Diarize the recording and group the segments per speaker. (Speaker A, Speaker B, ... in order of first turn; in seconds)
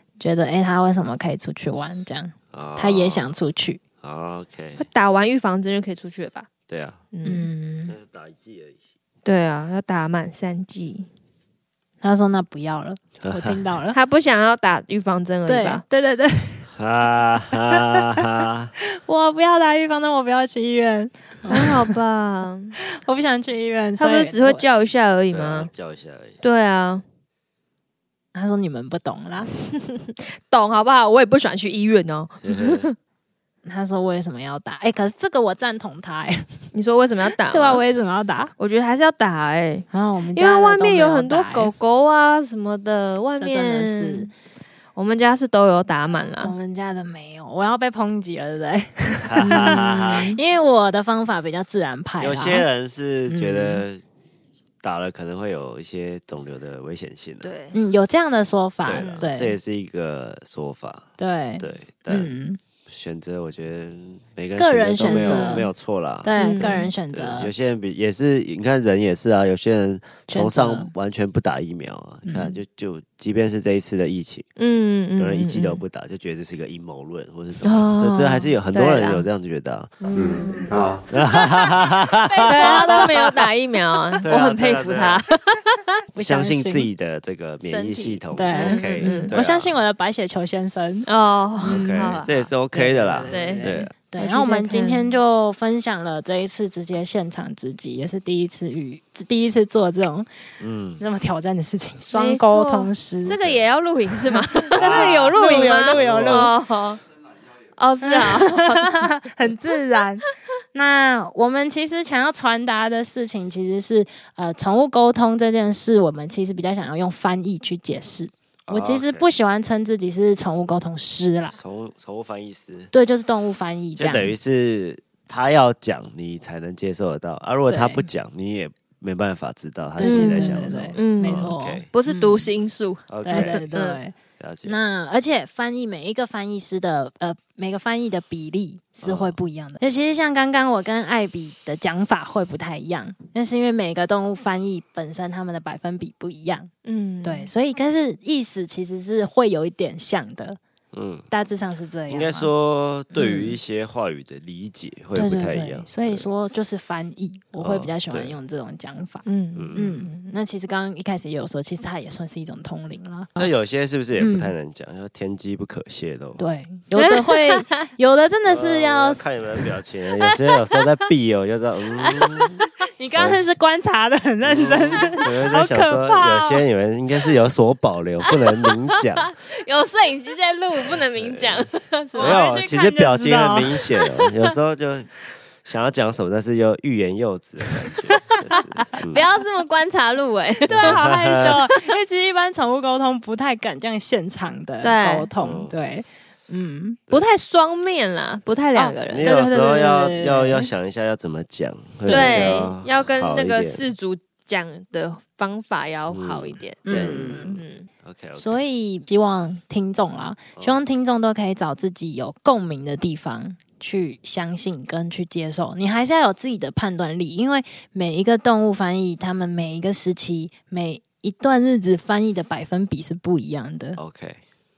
Speaker A: 0.2-3.8, 7.2-8.0, 12.0-14.0, 15.5-16.7, 17.5-18.2, 18.8-21.9, 22.8-24.7, 28.3-29.5, 33.6-36.6, 37.3-38.5, 39.9-41.7, 43.4-44.3, 46.4-52.7, 53.3-53.8, 57.7-59.6, 61.2-62.6, 64.5-65.7, 66.2-67.5, 70.3-70.9, 72.2-72.6, 80.0-80.7, 82.5-83.0, 86.1-86.9, 88.3-91.1, 91.6-92.0, 92.7-100.3, 101.0-103.4, 104.3-106.5, 108.0-121.6, 122.9-124.3, 127.7-128.1, 130.0-132.5, 133.2-146.7, 147.2-150.6, 151.3-152.5, 153.1-153.6, 155.2-163.3, 164.2-164.5, 166.4-169.3, 172.9-176.6, 182.2-183.8, 190.7-197.0, 198.8-200.7, 202.1-202.5, 206.8-207.6, 208.4-224.0
Speaker B: 2.5-3.3, 4.0-4.9, 6.7-7.0, 7.9-8.8, 13.2-13.6, 16.7-18.7, 25.3-26.4, 32.4-32.9, 49.3-50.3, 52.2-54.0, 54.8-57.5, 58.8-62.3, 62.9-74.5, 75.2-83.5, 84.2-85.2, 86.2-89.8, 91.7-93.9, 100.6-101.0, 103.3-103.7, 104.8-106.5, 118.7-119.3, 121.5-122.9, 124.0-131.9, 133.1-133.7, 134.4-134.8, 139.0-139.4, 150.9-151.3, 152.1-156.3, 157.6-158.4, 159.6-159.9, 163.4-166.5, 168.5-172.6, 173.2-173.4, 174.4-179.3, 180.9-189.3, 190.7-191.6, 195.4-195.7, 199.0-203.9, 206.1-208.6, 224.0-224.4
Speaker C: 4.8-6.5, 7.1-7.5, 9.2-11.1, 13.9-15.8, 21.5-22.8, 24.0-25.7, 26.4-27.0, 29.5-33.0, 36.7-37.8, 38.6-44.3, 45.0-46.5, 49.5-50.4, 57.4-57.8, 58.9-59.2, 65.0-65.6, 66.4-66.9, 74.6-75.8, 77.6-79.3, 81.4-81.7, 82.3-86.0, 87.6-89.3, 91.1-92.5, 93.3-95.2, 102.1-107.0, 107.8-109.2, 130.0-134.0, 146.8-147.5, 159.2-160.3, 167.0-167.9, 170.2-170.9, 172.0-172.7, 178.9-182.6, 184.0-184.5, 187.9-191.5, 194.8-195.3, 197.1-199.2, 202.1-207.9